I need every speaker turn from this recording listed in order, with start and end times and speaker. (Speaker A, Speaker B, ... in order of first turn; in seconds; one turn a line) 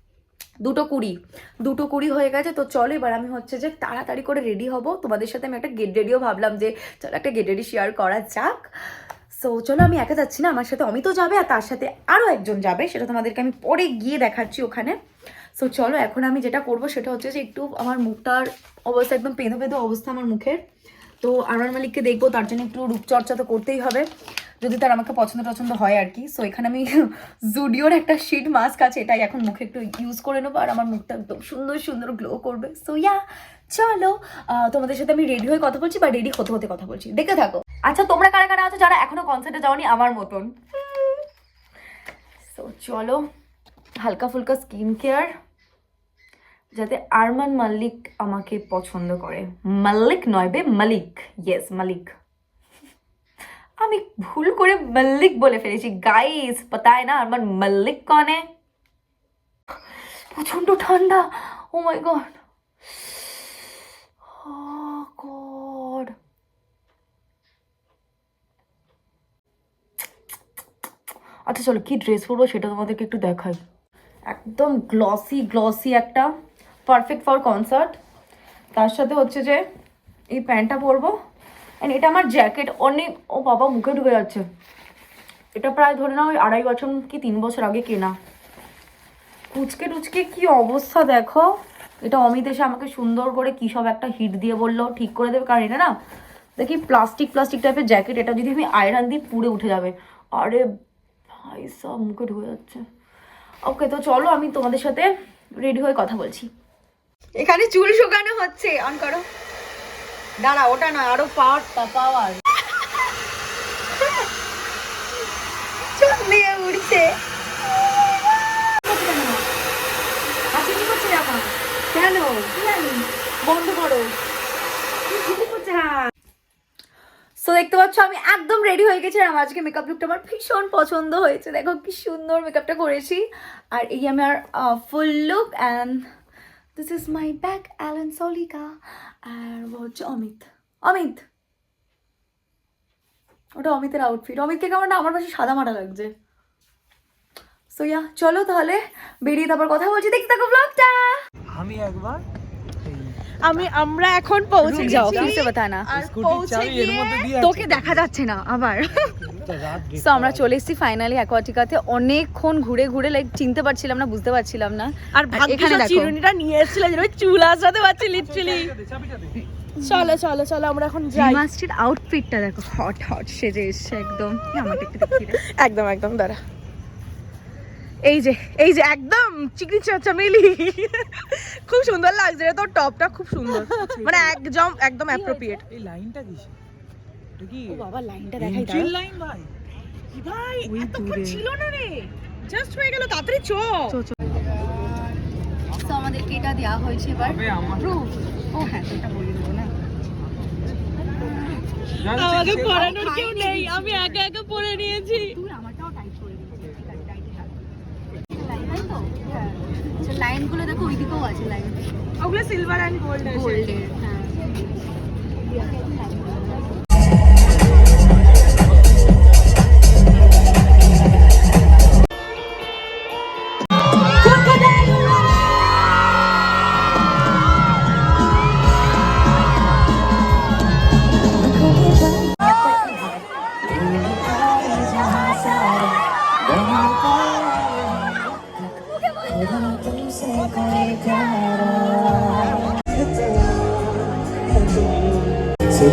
Speaker A: 0.6-8.7
Speaker A: 9.3-15.0
Speaker A: 15.6-20.6
Speaker A: 21.2-24.1
Speaker A: 24.6-41.2
Speaker A: 42.4-43.2
Speaker A: 44.0-45.3
Speaker A: 46.7-52.1
Speaker A: 53.8-58.4
Speaker A: 60.3-62.3
Speaker A: 63.0-63.4
Speaker A: 64.2-66.1
Speaker A: 71.5-73.6
Speaker A: 74.3-76.3
Speaker A: 76.8-78.0
Speaker A: 78.7-79.7
Speaker A: 80.3-81.2
Speaker A: 81.8-84.4
Speaker A: 85.5-88.1
Speaker A: 89.5-96.0
Speaker A: 96.6-100.7
Speaker A: 101.3-102.8
Speaker A: 103.6-106.5
Speaker A: 107.3-109.2
Speaker A: 110.4-112.4
Speaker A: 116.0-117.1
Speaker A: 118.8-119.4
Speaker A: 120.5-124.1
Speaker A: 125.1-125.9
Speaker B: 125.4-125.9
Speaker A: 127.4-136.1
Speaker A: 136.8-141.2
Speaker A: 143.6-146.1
Speaker A: 147.7-151.2
Speaker C: 151.5-152.2
Speaker C: 152.8-153.2
Speaker B: 153.4-157.3
Speaker A: 154.6-155.9
Speaker C: 154.6-155.4
Speaker C: 155.9-158.1
Speaker A: 157.2-166.1
Speaker C: 159.0-160.4
Speaker B: 165.1-168.8
Speaker C: 168.0-169.4
Speaker A: 169.8-170.2
Speaker B: 169.8-171.4
Speaker A: 171.1-175.4
Speaker B: 174.8-176.4
Speaker B: 178.1-185.6
Speaker A: 183.6-184.3
Speaker A: 185.1-185.6
Speaker C: 185.6-186.5
Speaker C: 187.4-187.8
Speaker A: 187.7-188.9
Speaker C: 188.4-189.5
Speaker B: 190.1-194.0
Speaker A: 190.6-191.4
Speaker A: 193.9-194.2
Speaker A: 195.7-199.6
Speaker C: 197.3-197.9
Speaker B: 202.0-205.3
Speaker C: 202.0-202.9
Speaker A: 202.6-204.3
Speaker A: 205.2-207.4
Speaker A: 208.3-211.8
Speaker B: 212.2-213.8
Speaker A: 213.2-214.3
Speaker A: 215.5-216.6
Speaker A: 231.3-233.2
Speaker A: 233.8-237.6
Speaker A: 239.3-242.6